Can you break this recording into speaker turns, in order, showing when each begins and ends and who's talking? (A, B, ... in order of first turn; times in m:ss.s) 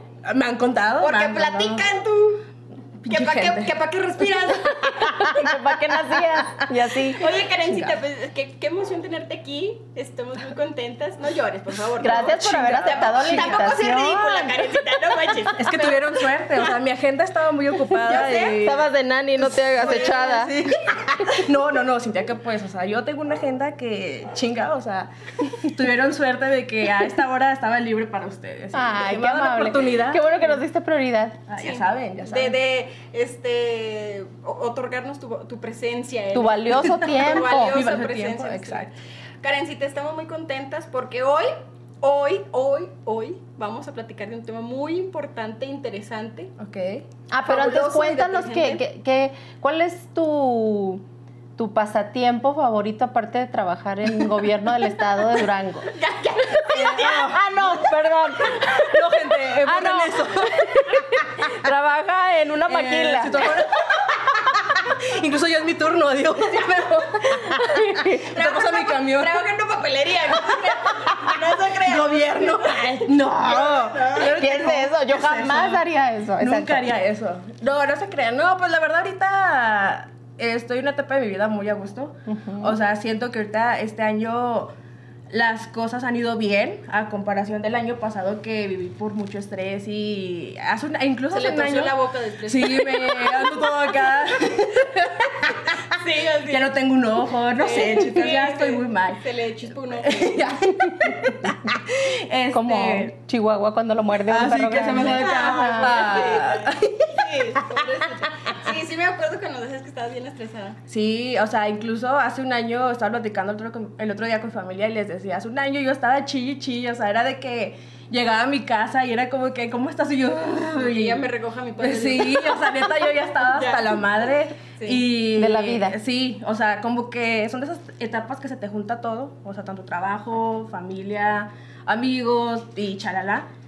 0:00.2-0:01.9 A
0:01.0-0:02.4 B
0:03.0-0:03.7 A
0:03.1-0:05.6 B
0:05.0-0:07.3 C
0:07.1-0:16.7 B
0:07.6-0:08.0 A
0:12.0-0:14.7 C
0:12.0-0:13.6 A
0:15.6-0:18.9 A
0:18.0-0:18.6 B
0:18.3-0:20.5 C
0:19.4-0:21.5 B
0:19.5-0:20.6 A
0:21.2-0:30.3 A
0:28.7-0:31.4 C
0:31.5-0:32.6 A
0:31.6-0:38.9 B
0:36.3-0:37.8 C
0:36.9-0:38.9 A
0:39.4-0:46.5 B
0:46.6-0:47.0 A
0:47.3-0:51.0 C
0:47.5-0:48.8 B
0:51.6-0:55.9 C
0:55.9-0:57.4 B
0:56.6-1:01.5 A
0:56.9-0:58.9 C
0:59.6-1:03.7 C
1:02.7-1:09.4 A
1:07.6-1:08.3 C
1:08.3-1:14.4 B
1:10.4-1:15.8 A
1:14.2-1:16.9 C
1:16.4-1:24.7 A
1:22.3-1:22.8 C
1:25.3-1:36.0 A
1:31.3-1:33.6 B
1:35.9-1:36.7 B
1:36.5-1:39.2 A
1:37.6-1:40.7 B
1:39.9-1:43.1 A
1:42.5-1:46.1 C
1:44.3-1:47.6 A
1:45.1-1:50.8 B
1:50.9-2:01.3 A
2:00.7-2:02.8 B
2:01.8-2:13.5 A
2:03.4-2:04.0 B
2:04.7-2:05.0 B
2:05.4-2:06.0 C